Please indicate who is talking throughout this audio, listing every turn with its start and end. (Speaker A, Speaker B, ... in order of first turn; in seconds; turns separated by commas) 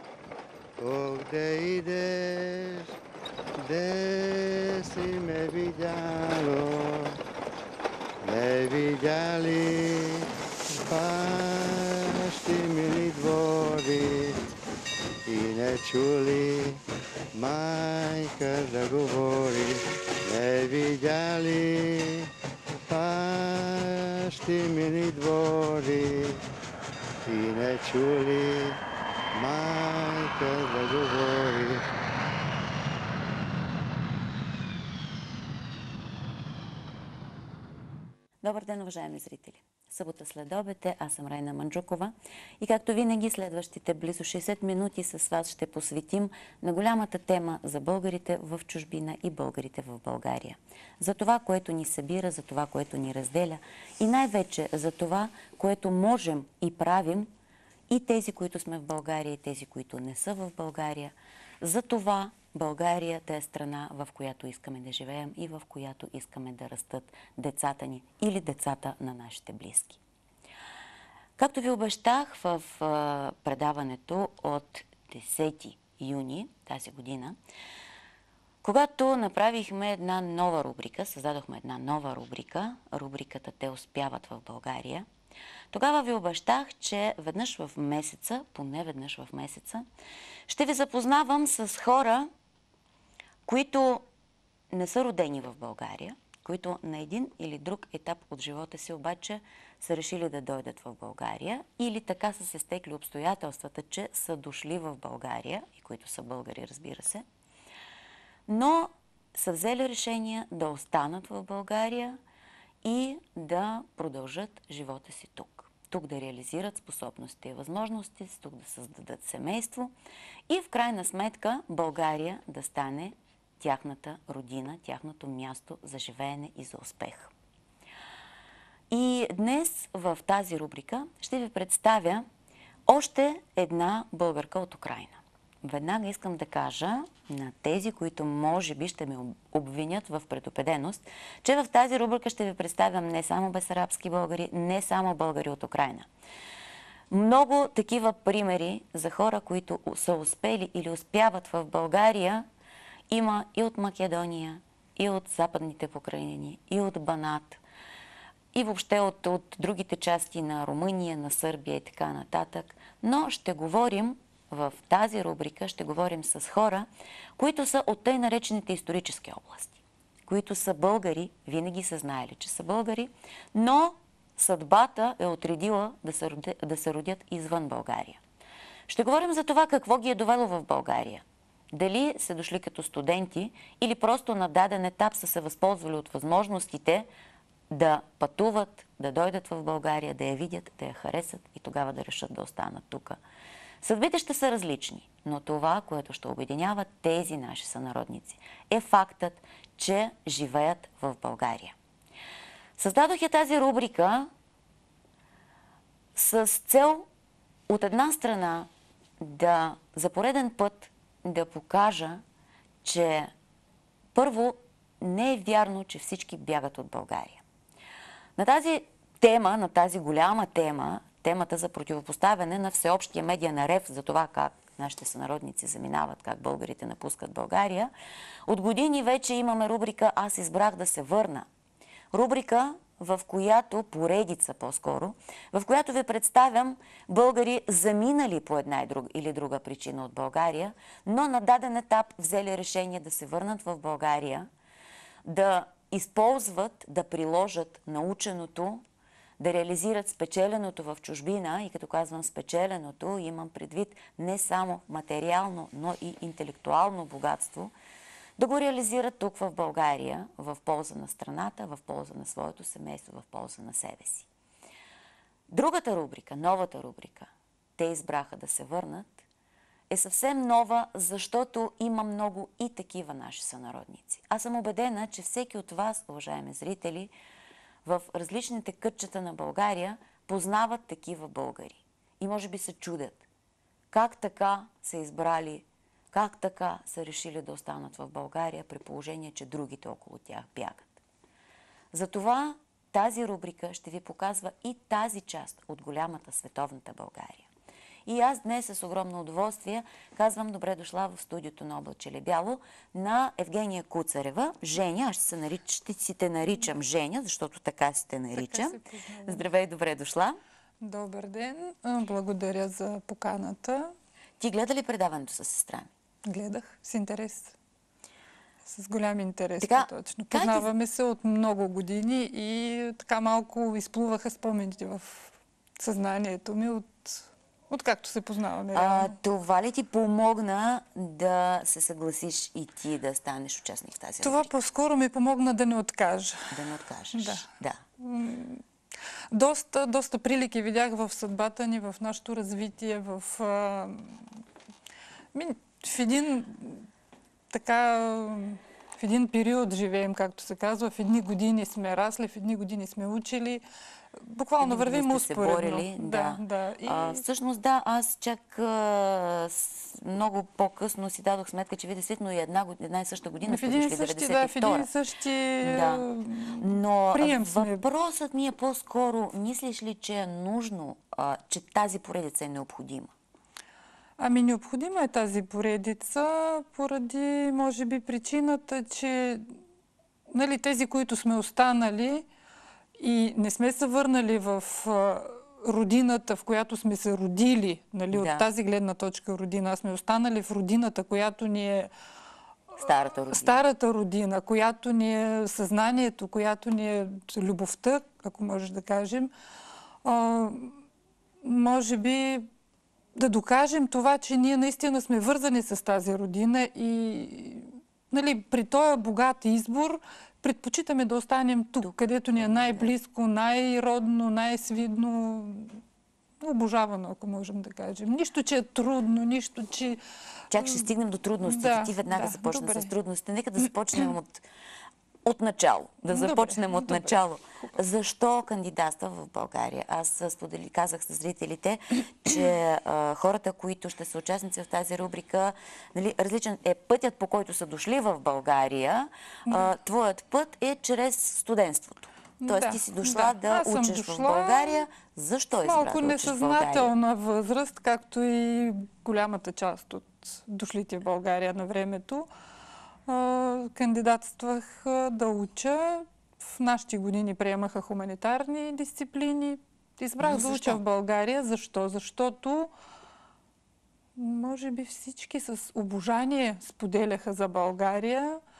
Speaker A: 0.8-2.9, Speaker A: 3.6-7.2, Speaker A: 8.2-10.3, Speaker A: 10.8-14.4, Speaker A: 15.2-16.8, Speaker A: 17.3-22.3, Speaker A: 22.9-26.4, Speaker A: 27.2-28.8, Speaker A: 29.3-31.8, Speaker B: 38.4-57.3, Speaker B: 57.9-70.0, Speaker B: 71.4-77.4, Speaker B: 78.6-85.1, Speaker B: 85.7-89.8, Speaker B: 90.5-92.3, Speaker B: 93.4-94.0, Speaker B: 94.7-107.2, Speaker B: 108.5-112.2, Speaker B: 112.8-119.9, Speaker B: 120.5-127.3, Speaker B: 128.9-132.2, Speaker B: 132.9-146.1, Speaker B: 147.1-152.4, Speaker B: 153.1-157.6, Speaker B: 158.5-178.2, Speaker B: 178.9-187.1, Speaker B: 187.7-193.2, Speaker B: 193.8-201.7, Speaker B: 202.8-204.3, Speaker B: 206.1-207.1, Speaker B: 207.7-208.7, Speaker B: 209.2-212.2, Speaker B: 212.8-213.3, Speaker B: 214.1-217.4, Speaker B: 218.4-227.9, Speaker B: 228.4-231.5, Speaker B: 232.1-244.5, Speaker B: 245.2-248.8, Speaker B: 249.4-257.7, Speaker B: 258.4-264.3, Speaker B: 265.5-269.2, Speaker B: 269.9-277.1, Speaker B: 277.8-283.2, Speaker B: 283.9-291.0, Speaker B: 291.9-297.5, Speaker B: 298.1-310.4, Speaker C: 308.3-309.4, Speaker C: 310.8-313.9, Speaker B: 314.4-315.9, Speaker C: 316.2-317.5, Speaker C: 318.6-329.1, Speaker B: 319.6-320.7, Speaker B: 328.7-334.5, Speaker C: 334.2-336.5, Speaker B: 336.5-337.8, Speaker C: 337.1-337.4, Speaker C: 338.0-338.6, Speaker C: 339.3-344.2, Speaker C: 345.3-346.9, Speaker C: 347.5-353.6, Speaker C: 354.1-357.2, Speaker B: 354.6-364.9, Speaker C: 363.4-367.8, Speaker B: 365.6-373.1, Speaker C: 374.2-379.5, Speaker C: 380.3-382.2, Speaker C: 383.0-391.9, Speaker B: 388.1-388.5, Speaker B: 392.8-393.6, Speaker C: 393.3-399.3, Speaker C: 400.0-400.8, Speaker C: 401.4-402.5, Speaker C: 403.1-415.8, Speaker B: 411.8-412.9, Speaker C: 416.4-420.0, Speaker B: 420.5-424.4, Speaker C: 420.5-420.9, Speaker C: 421.4-422.9, Speaker B: 425.2-446.9, Speaker C: 426.1-427.8, Speaker C: 442.4-444.8, Speaker C: 445.6-452.3, Speaker C: 453.1-462.7, Speaker B: 460.2-460.8, Speaker C: 464.1-468.4